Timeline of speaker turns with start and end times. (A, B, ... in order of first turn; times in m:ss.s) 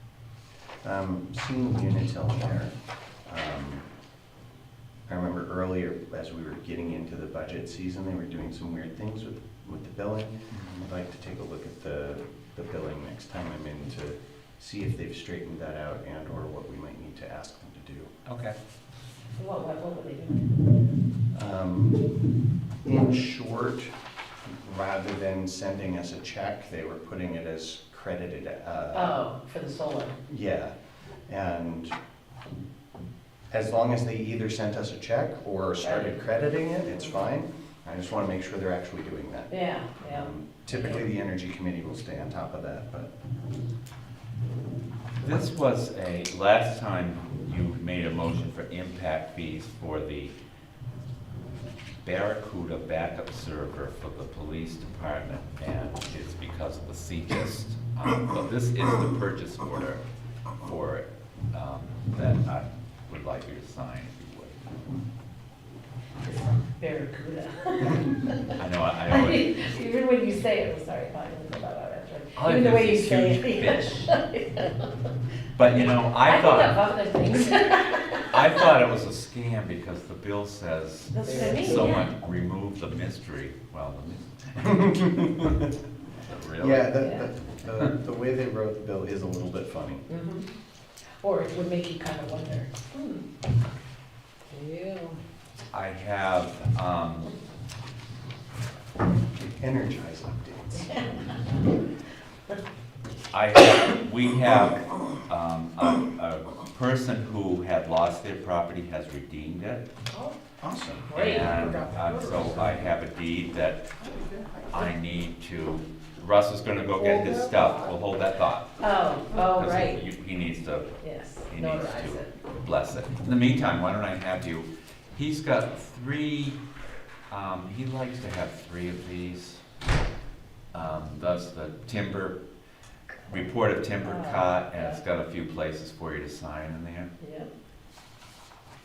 0:00.8-0:03.8 A
0:05.1-0:18.1 A
0:10.5-0:10.9 B
0:18.2-0:18.6 B
0:19.4-0:20.5 C
0:21.3-0:22.1 A
0:22.8-0:23.9 A
0:24.4-0:29.2 A
0:28.9-0:30.2 C
0:30.3-0:30.7 A
0:31.2-0:31.9 A
0:33.5-0:43.1 A
0:35.8-0:36.2 C
0:39.5-0:41.1 C
0:45.2-0:50.3 B
0:52.0-1:00.0 B
1:00.6-1:04.6 B
1:06.2-1:08.5 C
1:08.6-1:09.5 B
1:09.1-1:14.9 C
1:12.4-1:14.2 B
1:15.5-1:16.8 B
1:16.2-1:18.4 C
1:18.2-1:26.9 B
1:21.1-1:22.1 C
1:21.3-1:21.9 D
1:24.6-1:25.7 A
1:26.6-1:30.0 A
1:27.0-1:27.3 C
1:30.1-1:30.5 C
1:31.2-1:33.2 C
1:34.5-1:35.2 D
1:35.7-1:37.3 B
1:39.4-1:41.1 A
1:43.3-1:49.8 B
1:50.6-1:52.8 A
1:51.1-1:51.6 C
1:51.1-1:53.9 B
1:54.0-1:54.9 A
1:54.7-1:58.8 B
1:57.0-1:57.9 D
1:58.8-2:00.0 C
1:59.3-2:00.9 B
2:01.0-2:02.3 C
2:01.5-2:06.6 B
2:07.3-2:09.6 B
2:10.7-2:12.4 B
2:13.3-2:17.1 B
2:14.0-2:15.0 C
2:17.2-2:17.5 C